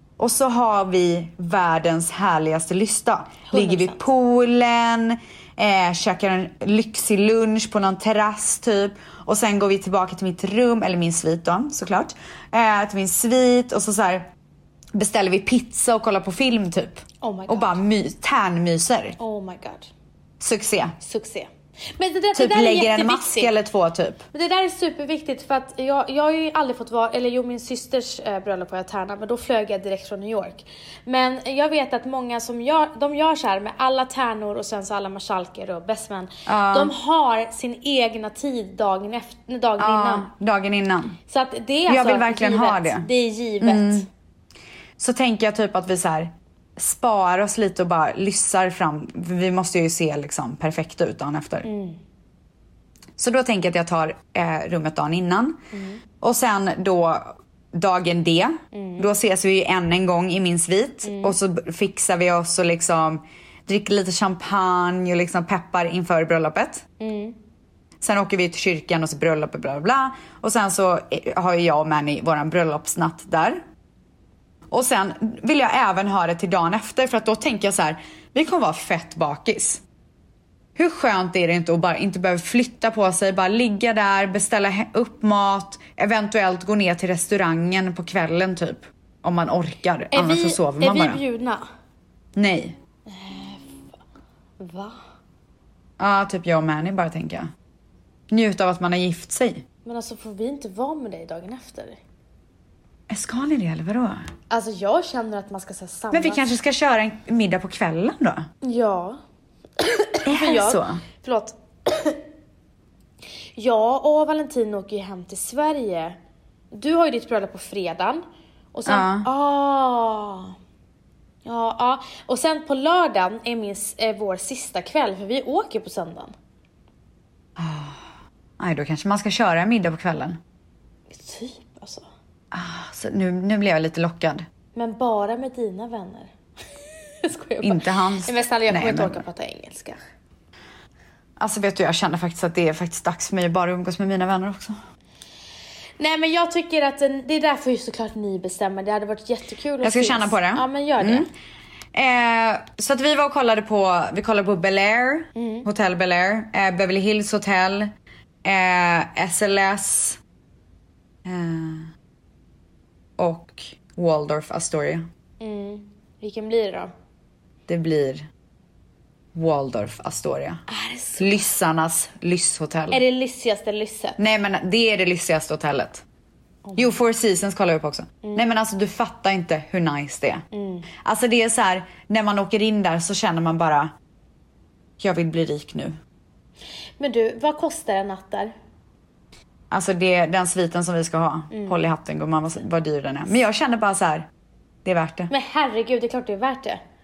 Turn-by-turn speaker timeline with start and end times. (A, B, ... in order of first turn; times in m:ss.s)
0:00.2-0:14.3 A
0:03.5-0:04.0 B
0:14.9-0:19.2 A
0:17.2-0:17.8 B
0:19.2-0:19.9 B
0:20.4-0:20.9 A
0:21.0-0:23.5 B
0:22.3-0:24.2 A
0:24.3-0:40.3 B
0:36.5-0:36.9 A
0:39.8-0:41.2 A
0:41.3-0:44.1 B
0:41.9-0:43.1 A
0:43.6-0:44.0 A
0:45.0-0:51.7 A
0:51.6-0:52.0 B
0:53.2-0:55.6 A
0:55.7-0:56.0 B
0:56.2-1:06.8 A
0:58.7-0:59.1 B
1:01.0-1:01.4 B
1:07.0-1:07.4 B
1:08.0-1:13.6 A
1:14.7-1:19.8 A
1:20.8-1:31.2 A
1:30.1-1:31.6 B
1:32.4-1:32.8 A
1:33.1-1:33.8 B
1:34.6-1:35.0 B
1:36.0-1:37.5 A
1:38.3-1:39.6 A
1:39.8-1:42.0 B
1:43.1-1:44.3 A
1:44.5-1:46.4 B
1:46.1-1:48.5 A
1:48.6-1:49.2 B
1:49.8-1:52.2 B
1:50.2-1:51.0 A
1:53.6-1:56.2 B
1:56.7-2:00.5 B
1:58.8-1:59.3 A
2:01.4-2:06.3 B
2:07.6-2:08.0 A
2:08.6-2:10.4 A
2:11.1-2:12.1 B
2:12.5-2:14.4 A
2:14.7-2:16.3 B
2:17.2-2:20.0 B
2:17.6-2:19.2 A
2:21.4-2:24.8 A
2:26.0-2:31.3 B
2:29.8-2:31.3 A
2:31.9-2:37.9 A
2:35.3-2:35.7 B
2:38.4-2:40.2 A
2:41.2-2:41.9 A
2:43.2-2:45.0 A
2:45.4-2:46.9 B
2:47.7-2:48.3 A
2:49.3-2:50.6 A
2:50.7-2:51.4 B
2:51.2-2:53.0 A
2:52.9-2:54.2 B
2:54.2-2:56.0 A
2:56.6-2:57.0 B
2:56.8-3:00.4 A
3:00.5-3:00.9 B
3:01.0-3:03.9 A
3:05.0-3:06.0 A
3:07.0-3:08.5 B
3:09.7-3:14.3 A
3:11.5-3:11.8 B
3:14.8-3:15.3 A
3:15.3-3:16.8 B